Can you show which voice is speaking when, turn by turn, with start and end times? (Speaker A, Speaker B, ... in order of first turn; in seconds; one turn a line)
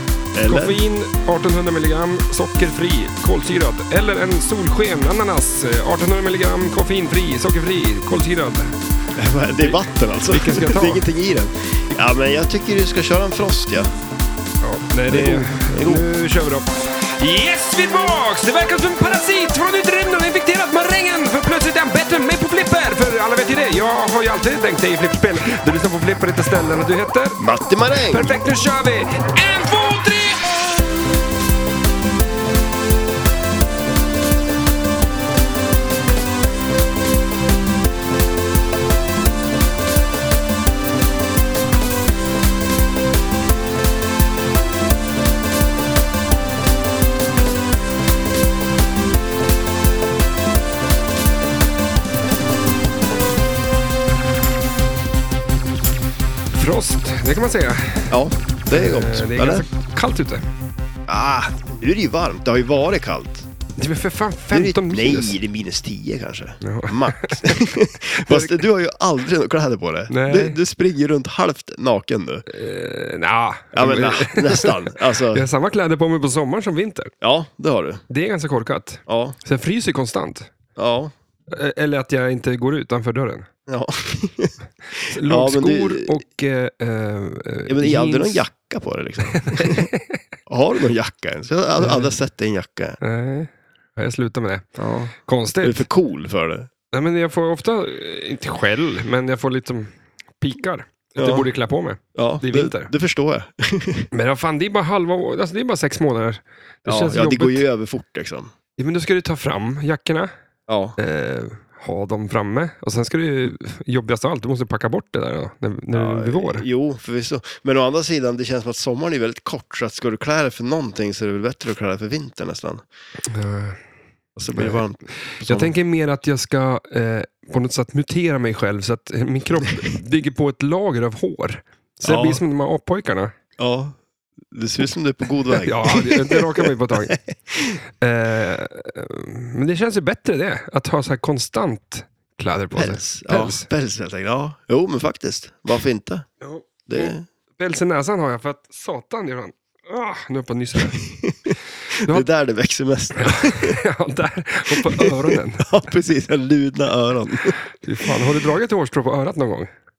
Speaker A: 0.3-0.8
Speaker B: 0.5-8.8
Speaker A: 9.2-13.9
Speaker B: 9.6-11.0
Speaker B: 14.6-30.6
Speaker A: 15.1-16.1
Speaker A: 27.4-28.3
Speaker B: 56.5-58.2
Speaker A: 58.1-59.6
Speaker B: 58.7-60.5
Speaker A: 61.1-63.5
Speaker B: 63.8-65.4
Speaker A: 64.5-72.5
Speaker B: 66.6-67.6
Speaker B: 68.2-68.6
Speaker B: 70.1-70.6
Speaker B: 72.5-77.1
Speaker A: 73.7-75.4
Speaker A: 77.2-78.0
Speaker B: 78.1-80.5
Speaker A: 79.1-79.4
Speaker A: 80.8-81.1
Speaker B: 81.5-83.5
Speaker A: 83.7-86.2
Speaker B: 85.1-88.5
Speaker A: 87.7-89.9
Speaker B: 89.2-90.2
Speaker A: 90.5-93.0
Speaker B: 91.8-92.1
Speaker B: 93.0-94.7
Speaker A: 94.8-96.7
Speaker B: 95.2-95.9
Speaker B: 96.9-102.9
Speaker A: 101.2-101.5
Speaker A: 102.2-104.1
Speaker B: 104.1-107.7
Speaker A: 106.9-108.5
Speaker B: 108.8-110.3
Speaker A: 110.7-111.0
Speaker B: 111.0-116.7
Speaker A: 115.9-122.8
Speaker B: 123.3-123.8
Speaker A: 124.4-125.8
Speaker B: 124.5-133.3
Speaker A: 132.1-132.4
Speaker A: 133.6-134.0
Speaker A: 134.5-137.7
Speaker B: 135.5-137.2
Speaker B: 138.0-143.7
Speaker A: 142.7-146.3
Speaker B: 146.4-151.1
Speaker A: 146.9-147.2
Speaker A: 150.8-153.8
Speaker B: 153.2-155.7
Speaker A: 154.7-158.2
Speaker B: 157.7-159.7